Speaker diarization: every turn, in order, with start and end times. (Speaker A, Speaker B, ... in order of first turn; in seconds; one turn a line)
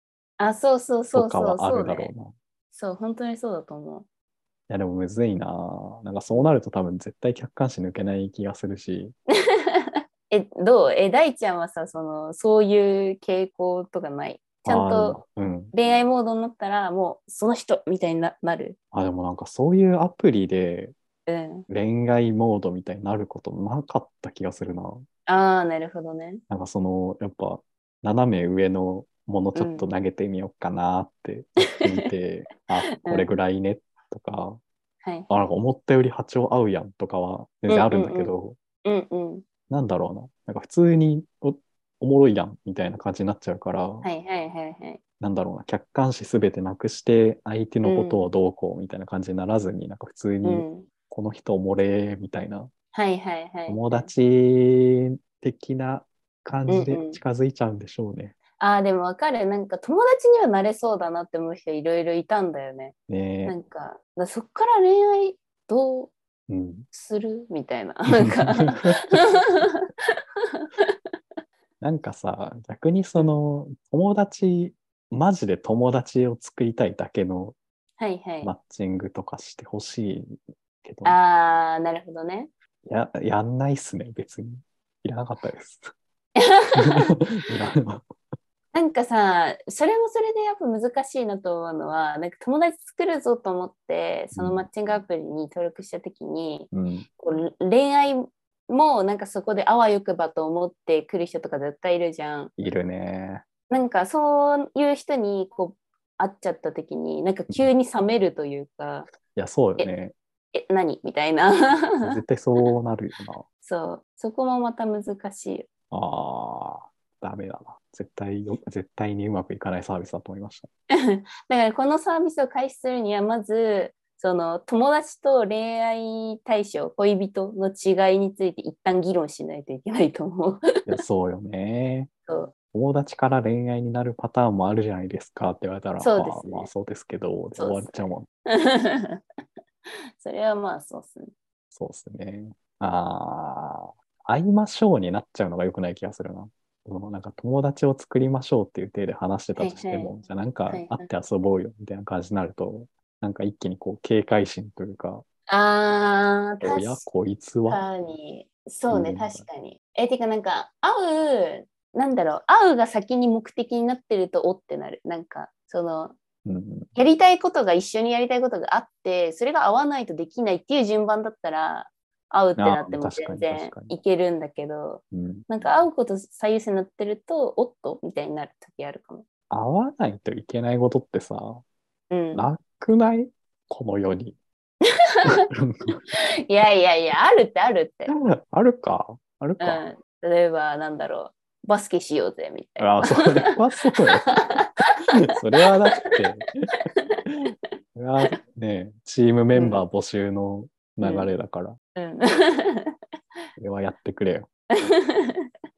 Speaker A: 0.4-2.1
Speaker B: 1.1-2.3
Speaker A: 2.7-4.1
Speaker B: 4.7-9.2
Speaker A: 9.5-18.8
Speaker B: 14.7-15.7
Speaker B: 18.9-20.9
Speaker A: 21.3-21.7
Speaker B: 21.7-25.1
Speaker A: 25.3-26.4
Speaker B: 26.5-34.6
Speaker A: 29.6-29.9
Speaker A: 33.0-33.3
Speaker A: 35.0-35.3
Speaker B: 35.3-38.6
Speaker A: 37.7-38.3
Speaker A: 38.8-39.5
Speaker B: 39.7-44.1
Speaker A: 44.0-45.0
Speaker B: 45.2-52.7
Speaker A: 47.8-48.3
Speaker A: 50.4-50.9
Speaker A: 52.9-54.1
Speaker B: 53.7-58.4
Speaker A: 56.7-57.2
Speaker A: 58.6-63.0
Speaker B: 63.1-63.5
Speaker A: 63.5-66.1
Speaker B: 66.5-66.9
Speaker A: 66.9-69.8
Speaker B: 68.2-69.4
Speaker A: 70.6-70.9
Speaker B: 71.8-77.6
Speaker A: 78.0-78.5
Speaker B: 78.4-81.2
Speaker A: 81.0-82.5
Speaker B: 82.9-85.9
Speaker A: 86.4-87.2
Speaker B: 86.8-88.1
Speaker A: 88.7-102.5
Speaker B: 94.3-94.6
Speaker B: 96.7-97.1
Speaker B: 102.6-103.5
Speaker A: 103.7-109.1
Speaker B: 109.3-110.1
Speaker A: 110.5-112.1
Speaker B: 112.0-113.4
Speaker A: 113.6-115.7
Speaker B: 115.9-120.7
Speaker A: 121.0-130.9
Speaker B: 130.9-132.1
Speaker A: 132.3-132.5
Speaker B: 132.7-138.3
Speaker A: 136.0-136.7
Speaker A: 137.6-139.2
Speaker A: 140.2-141.3
Speaker B: 141.7-155.2
Speaker A: 149.6-150.1
Speaker A: 150.7-151.1
Speaker A: 155.5-157.1
Speaker B: 156.6-157.8
Speaker A: 157.7-166.2
Speaker B: 158.9-159.5
Speaker B: 166.4-166.9
Speaker A: 166.9-179.2
Speaker B: 172.6-173.9
Speaker B: 175.1-175.5
Speaker B: 179.5-181.7
Speaker A: 182.1-182.5
Speaker B: 182.3-184.4
Speaker A: 185.1-185.4
Speaker B: 185.5-186.0
Speaker A: 186.1-188.1
Speaker B: 188.1-189.8
Speaker A: 189.6-193.5
Speaker B: 192.8-194.5
Speaker A: 194.3-195.0
Speaker B: 195.3-196.5
Speaker A: 195.6-196.1
Speaker A: 196.7-197.2
Speaker B: 197.3-201.8
Speaker A: 199.5-199.8
Speaker A: 201.0-201.3
Speaker A: 201.9-203.0
Speaker B: 203.6-204.5
Speaker A: 204.7-205.5